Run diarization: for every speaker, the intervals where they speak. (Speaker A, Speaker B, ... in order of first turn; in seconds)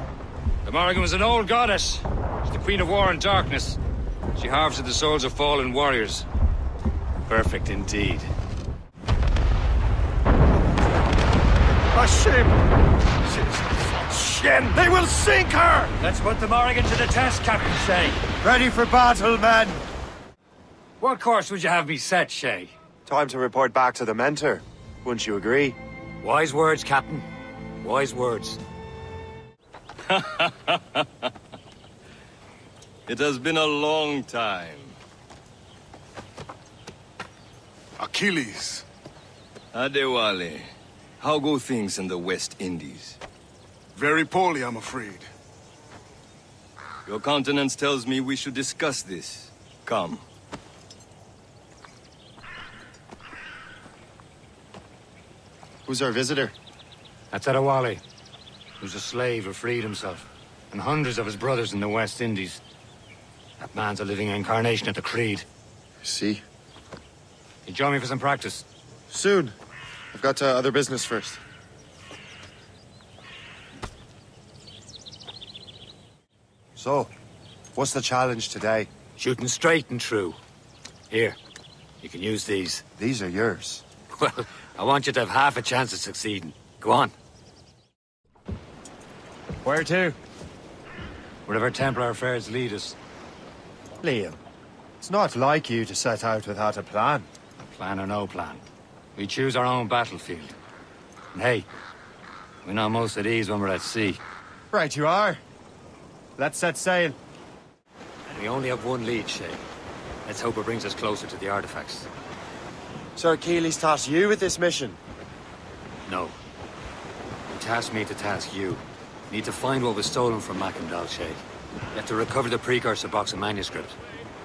Speaker A: 0.7-3.8, 4.4-6.3, 7.3-8.3, 16.0-18.2, 21.0-22.7, 26.2-27.3, 27.8-28.6, 57.3-58.0, 58.8-62.6, 63.6-65.5, 67.7-68.7, 79.2-80.4, 81.1-81.4, 82.0-82.8, 84.1-87.1, 91.5-93.0, 97.6-98.6, 99.2-100.5, 101.3-101.7, 102.6-104.2, 108.3-109.6, 110.3-112.1, 116.1-116.4, 117.5-121.4, 122.0-124.0
Speaker B: 11.9-12.6, 13.2-15.9
Speaker C: 18.4-19.8, 23.1-25.8, 55.9-56.5, 66.0-66.4, 69.1-69.5, 70.1-71.4, 76.8-77.1, 77.8-78.9, 83.0-83.8, 89.6-90.2, 94.0-94.4, 95.0-97.3, 104.7-105.4, 106.4-107.2, 113.2-115.0
Speaker D: 30.1-31.2, 33.1-34.9, 39.7-40.7, 41.2-43.2, 47.1-50.2
Speaker E: 38.0-38.9, 44.0-45.3